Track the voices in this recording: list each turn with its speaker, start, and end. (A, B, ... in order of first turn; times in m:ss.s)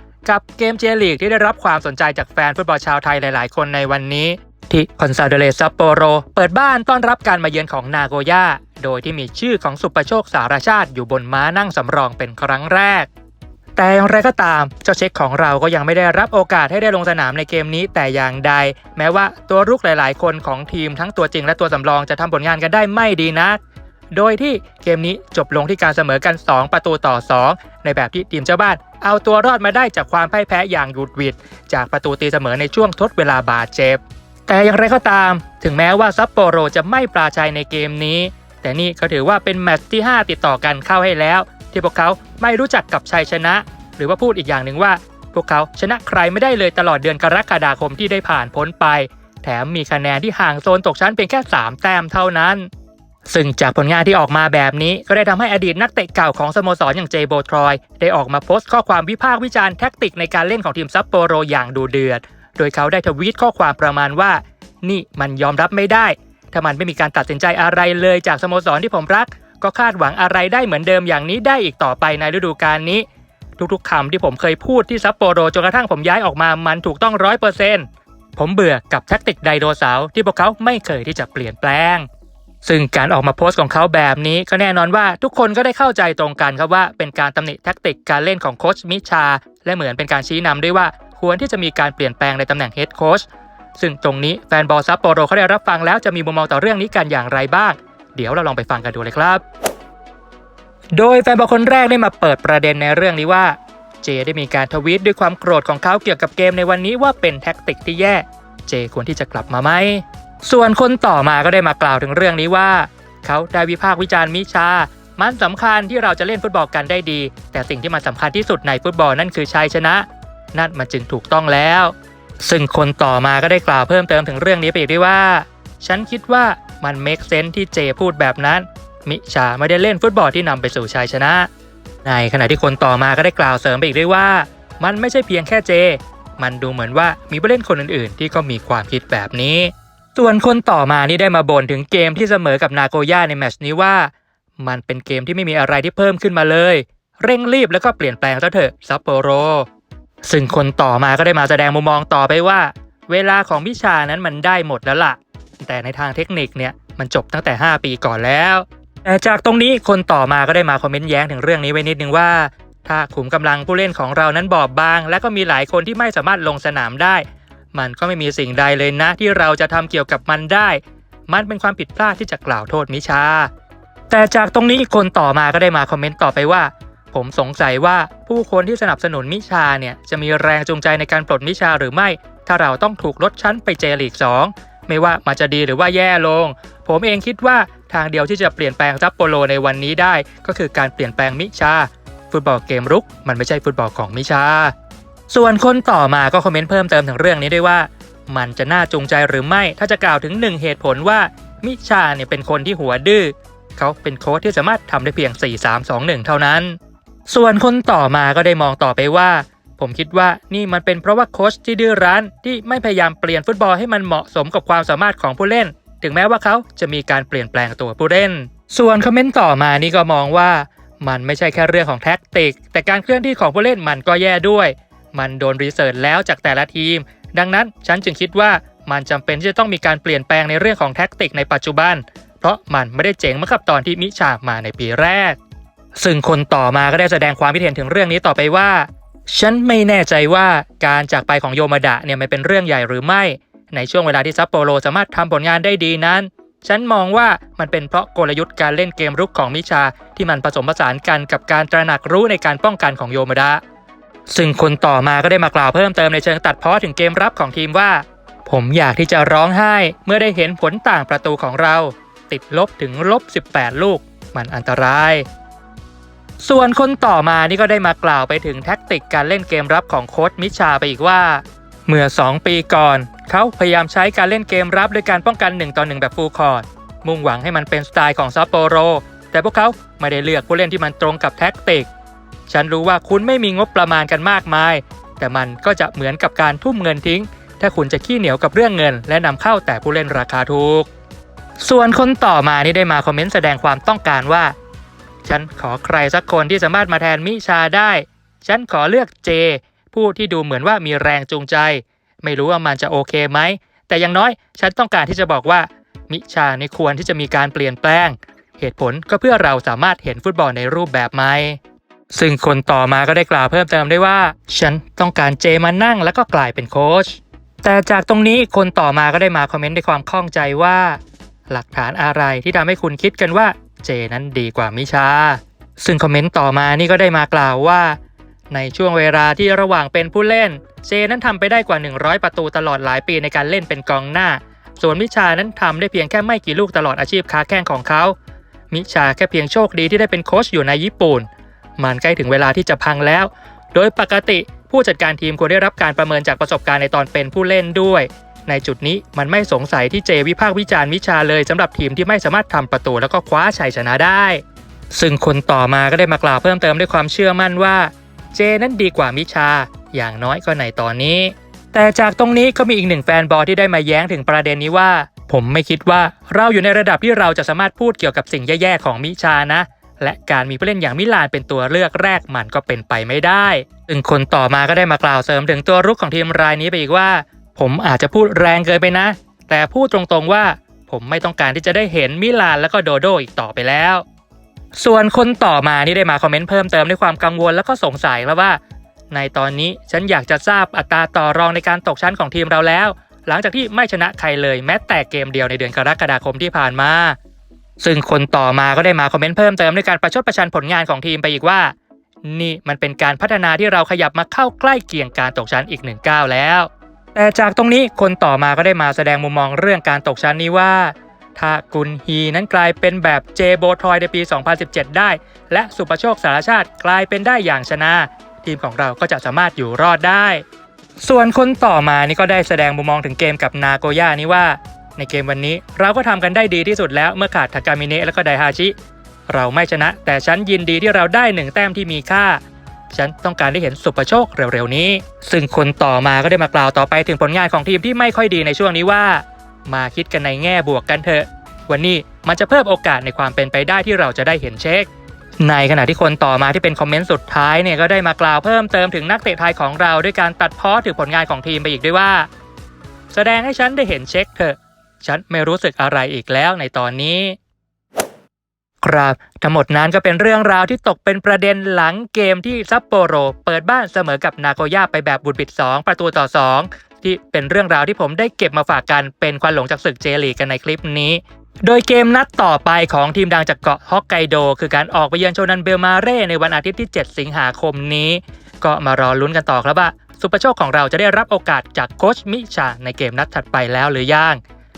0:00.2-0:13.1 A
0:13.8-0:23.6 A
0:24.1-0:52.7 A
0:53.3-1:13.0 A
1:13.6-1:22.0 A
1:22.6-1:39.4 A
1:41.0-2:11.5 A
2:12.0-2:29.6 A
2:30.2-2:53.5 A
2:54.1-3:14.7 A
3:15.3-3:26.8 A
3:27.3-3:55.4 A
3:56.0-4:13.6 A
4:14.3-4:25.2 A
4:26.4-4:41.9 A
4:42.5-4:50.9 A
4:51.6-4:54.5 A
4:55.2-5:11.6 A
5:12.1-5:21.0 A
5:21.5-5:28.0 A
5:28.5-5:38.1 A
5:38.7-5:41.3 A
5:41.8-6:24.0 A
6:24.7-6:28.6 A
6:29.1-6:37.2 A
6:37.8-6:41.7 A
6:42.2-7:00.4 A
7:01.0-7:08.7 A
7:09.3-7:12.4 A
7:12.9-7:24.9 A
7:25.4-7:32.3 A
7:33.1-7:37.4 A
7:38.8-8:04.4 A